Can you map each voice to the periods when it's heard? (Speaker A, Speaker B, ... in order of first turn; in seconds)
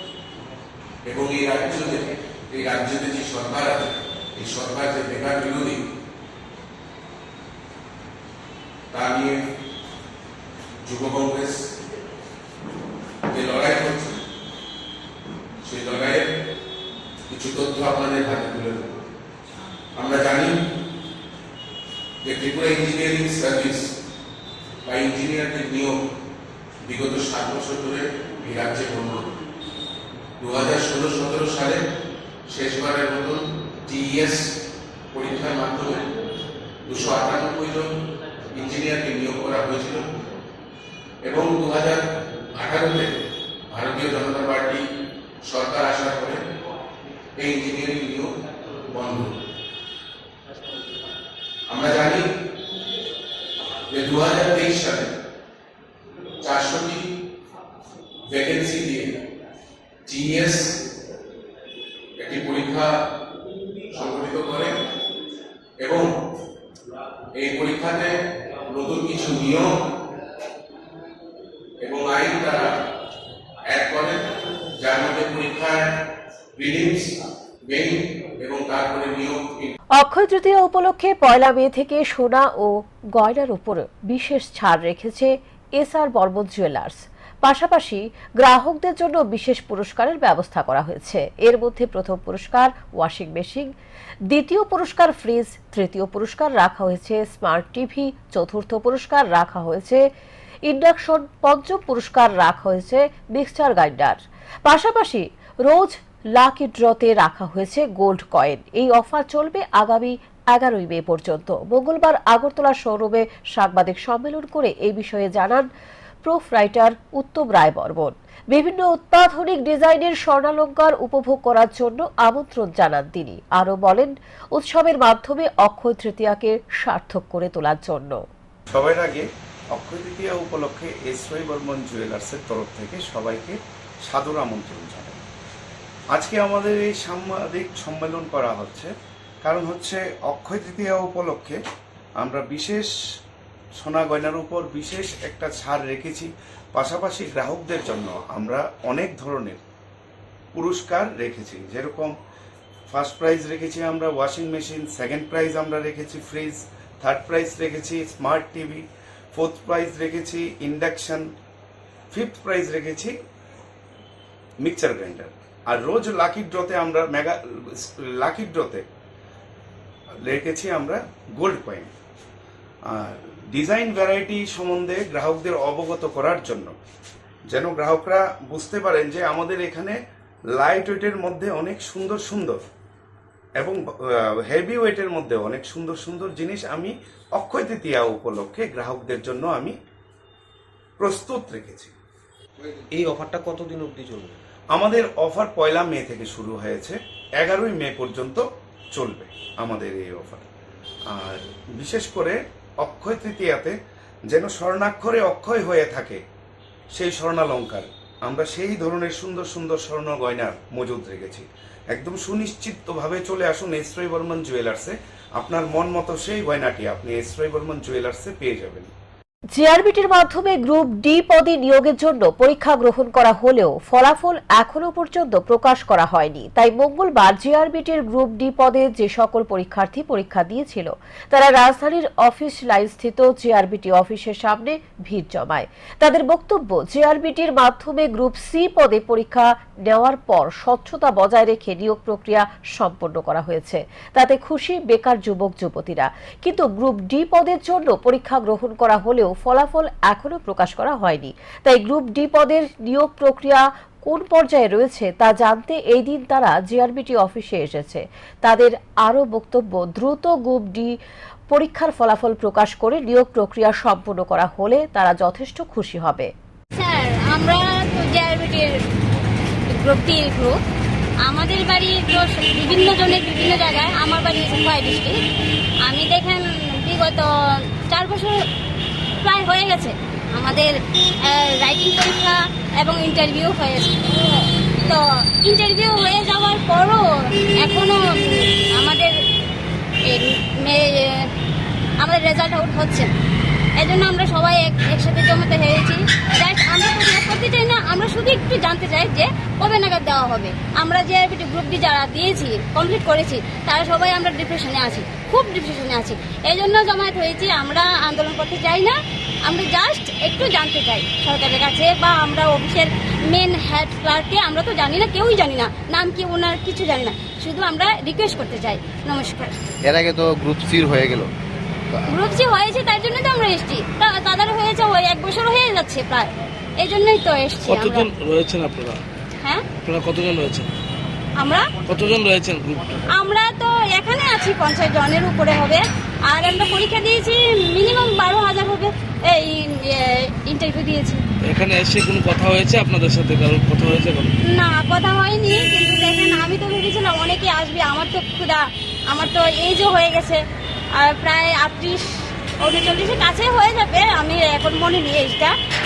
Speaker A: 1.1-5.8, 8.9-9.4, 10.8-11.5, 13.3-14.2, 15.6-16.2, 17.3-18.9, 20.0-20.5, 22.2-23.8, 24.9-25.9, 26.9-29.2, 30.4-31.8, 32.5-34.4, 35.1-36.0, 36.9-37.9, 38.5-40.0, 41.2-42.0, 42.6-43.1, 43.7-44.8, 45.5-46.4, 47.4-48.3, 48.9-49.3, 51.7-52.2, 53.9-55.1, 56.4-57.0, 58.3-59.1, 60.1-60.6, 62.2-62.9, 63.9-64.7, 65.8-66.1, 67.4-68.1, 68.7-69.7, 71.8-72.7, 73.7-74.2, 74.8-75.8, 76.6-77.1, 77.7-79.7
Speaker B: 80.0-93.7, 94.3-100.0, 100.7-115.7, 116.2-128.2, 219.6-260.9, 261.5-266.3
Speaker C: 128.7-135.2, 136.1-138.9, 139.4-141.6, 142.2-142.9, 143.8-149.6, 150.5-152.2, 152.9-161.3, 162.1-163.1, 164.6-168.8, 170.2-171.9, 172.9-176.8, 177.5-180.0, 180.6-182.6, 183.6-183.8, 184.5-189.8, 191.0-191.9, 194.7-200.5, 201.1-203.8, 204.3-206.2, 206.9-218.9
Speaker D: 192.9-194.3, 319.9-320.7
Speaker E: 266.8-268.8, 269.7-270.6, 271.2-275.2, 275.8-277.3, 277.9-278.4, 279.2-287.0, 287.6-289.1, 290.1-291.3, 292.0-293.1, 293.8-319.6, 322.1-328.1, 329.4-329.7, 331.4-331.8, 333.1-341.2, 344.5-350.4, 351.0-352.1, 352.6-355.5
Speaker F: 327.6-329.0, 329.8-330.7, 331.9-333.0, 341.4-344.3